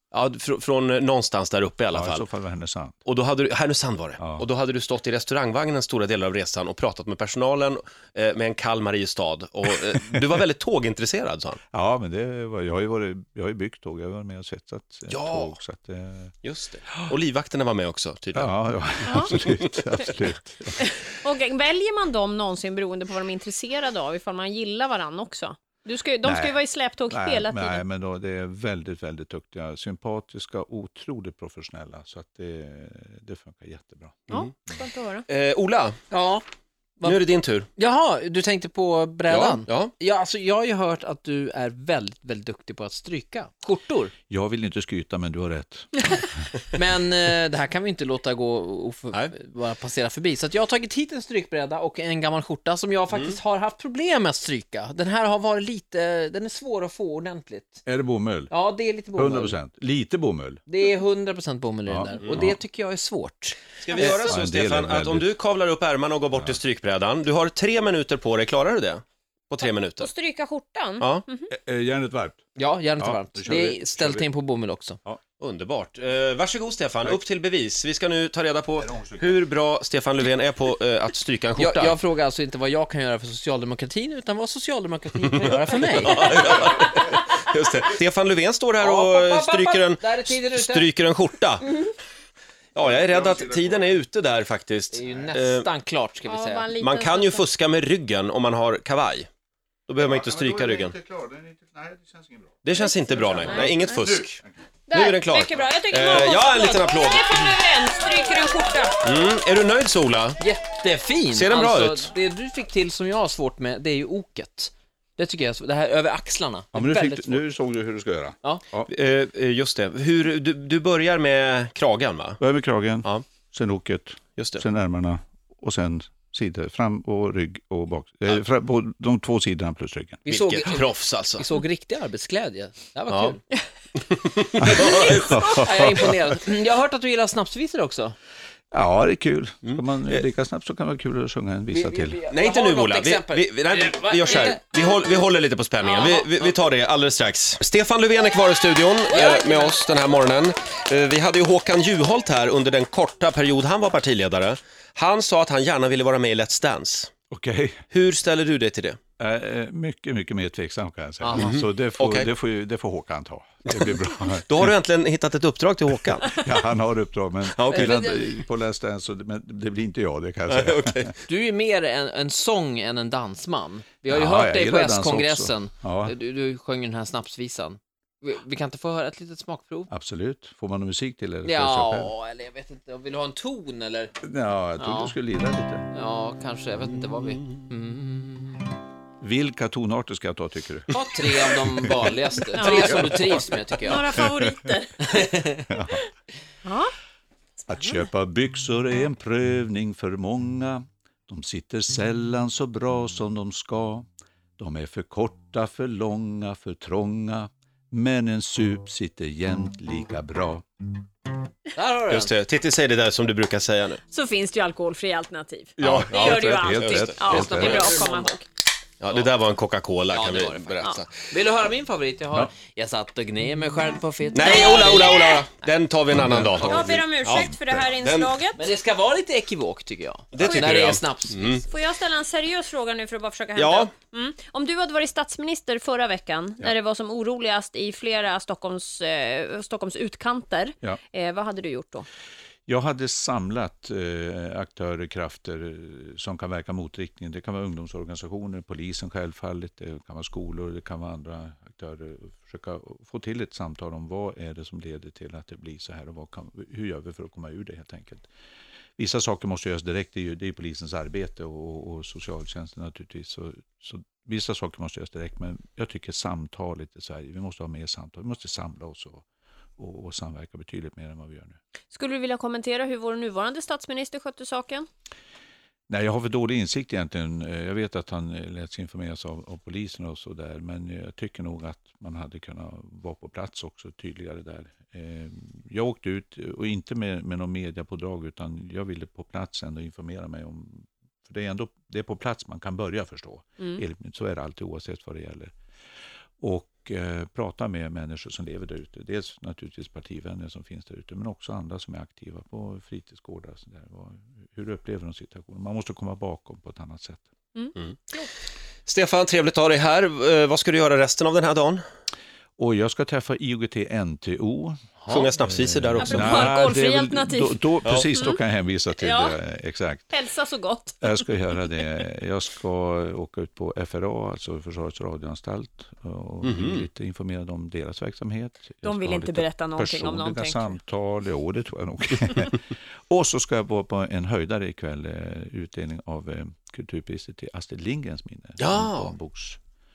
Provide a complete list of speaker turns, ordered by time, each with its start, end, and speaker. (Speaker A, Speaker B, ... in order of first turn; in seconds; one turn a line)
Speaker A: 0.1-2.2
Speaker B: 1.9-3.0
Speaker A: 3.0-11.6
Speaker B: 4.2-4.5
Speaker B: 11.7-16.3
Speaker A: 15.1-15.6
Speaker A: 16.4-18.5
Speaker B: 18.3-20.9
Speaker C: 19.1-19.3
Speaker C: 20.8-27.8
Speaker B: 26.2-34.3
Speaker C: 34.3-35.2
Speaker A: 35.3-36.0
Speaker D: 36.1-36.4
Speaker A: 37.0-37.7
Speaker D: 37.8-44.1
Speaker A: 39.3-39.9
Speaker B: 44.3-46.2
Speaker D: 46.7-57.8
Speaker B: 57.9-58.5
Speaker D: 58.5-59.6
Speaker B: 59.1-60.6
Speaker D: 60.7-64.0
Speaker B: 61.9-62.6
Speaker A: 63.8-70.1
Speaker C: 63.9-64.3
Speaker B: 64.0-65.3
Speaker C: 69.6-71.5
Speaker B: 71.5-72.4
Speaker D: 72.6-75.0
Speaker B: 73.0-74.2
Speaker A: 75.4-82.0
Speaker B: 78.8-79.4
Speaker D: 81.5-86.4
Speaker A: 86.0-91.8
Speaker D: 88.8-90.9
Speaker A: 92.8-95.7
Speaker B: 92.8-94.0
Speaker D: 94.9-96.7
Speaker C: 96.2-97.4
Speaker A: 96.8-99.3
Speaker A: 99.9-101.0
Speaker B: 100.0-104.5
Speaker A: 102.6-107.5
Speaker C: 102.8-103.8
Speaker C: 104.9-109.0
Speaker A: 109.0-110.4
Speaker D: 110.4-117.4
Speaker A: 111.3-112.1
Speaker B: 116.7-118.9
Speaker A: 118.9-122.4
Speaker B: 122.4-130.2
Speaker A: 124.4-124.6
Speaker D: 130.2-133.4
Speaker A: 130.3-131.4
Speaker A: 133.1-133.4
Speaker A: 133.9-135.4
Speaker B: 134.6-136.2
Speaker D: 134.8-138.1
Speaker B: 138.7-142.2
Speaker A: 139.6-140.2
Speaker D: 141.7-144.6
Speaker A: 142.3-157.1
Speaker D: 145.9-146.3
Speaker D: 149.1-149.8
Speaker B: 157.3-157.8
Speaker A: 157.9-159.0
Speaker B: 159.2-164.7
Speaker D: 161.2-161.6
Speaker A: 161.3-162.3
Speaker A: 164.4-166.4
Speaker B: 166.3-171.1
Speaker A: 167.5-168.1
Speaker A: 170.5-171.2
Speaker D: 171.3-179.9
Speaker B: 174.1-176.1
Speaker B: 179.9-182.1
Speaker D: 181.4-184.1
Speaker B: 184.2-185.9
Speaker D: 184.8-185.2
Speaker D: 185.9-188.7
Speaker B: 189.2-192.1
Speaker D: 190.9-194.2
Speaker C: 192.5-193.0
Speaker C: 193.8-196.0
Speaker D: 195.1-195.7
Speaker B: 195.7-196.0
Speaker C: 196.6-196.9
Speaker B: 197.7-204.1
Speaker C: 197.7-198.0
Speaker B: 204.6-210.6
Speaker D: 211.8-212.3
Speaker A: 212.1-214.0
Speaker C: 214.1-218.4
Speaker B: 215.8-217.9
Speaker A: 215.8-217.9
Speaker D: 217.4-218.3
Speaker A: 219.0-221.1
Speaker D: 220.1-225.4
Speaker A: 224.3-228.3
Speaker C: 224.4-225.4
Speaker B: 226.1-227.9
Speaker C: 226.6-228.7
Speaker D: 228.6-231.6
Speaker A: 230.3-231.6
Speaker C: 230.4-230.8
Speaker C: 231.7-242.1
Speaker A: 233.6-233.9
Speaker B: 242.7-258.3
Speaker B: 259.0-269.2
Speaker B: 269.8-271.6
Speaker C: 271.9-274.9
Speaker B: 275.9-295.5
Speaker B: 296.4-307.3
Speaker C: 307.5-308.3
Speaker A: 308.9-311.8
Speaker B: 312.6-314.8
Speaker D: 315.0-315.3
Speaker A: 315.1-316.5
Speaker B: 315.4-320.1
Speaker C: 316.0-318.4
Speaker C: 319.0-319.4
Speaker C: 320.1-321.2
Speaker B: 321.0-339.6
Speaker A: 326.4-326.9
Speaker C: 328.8-330.8
Speaker A: 338.6-339.1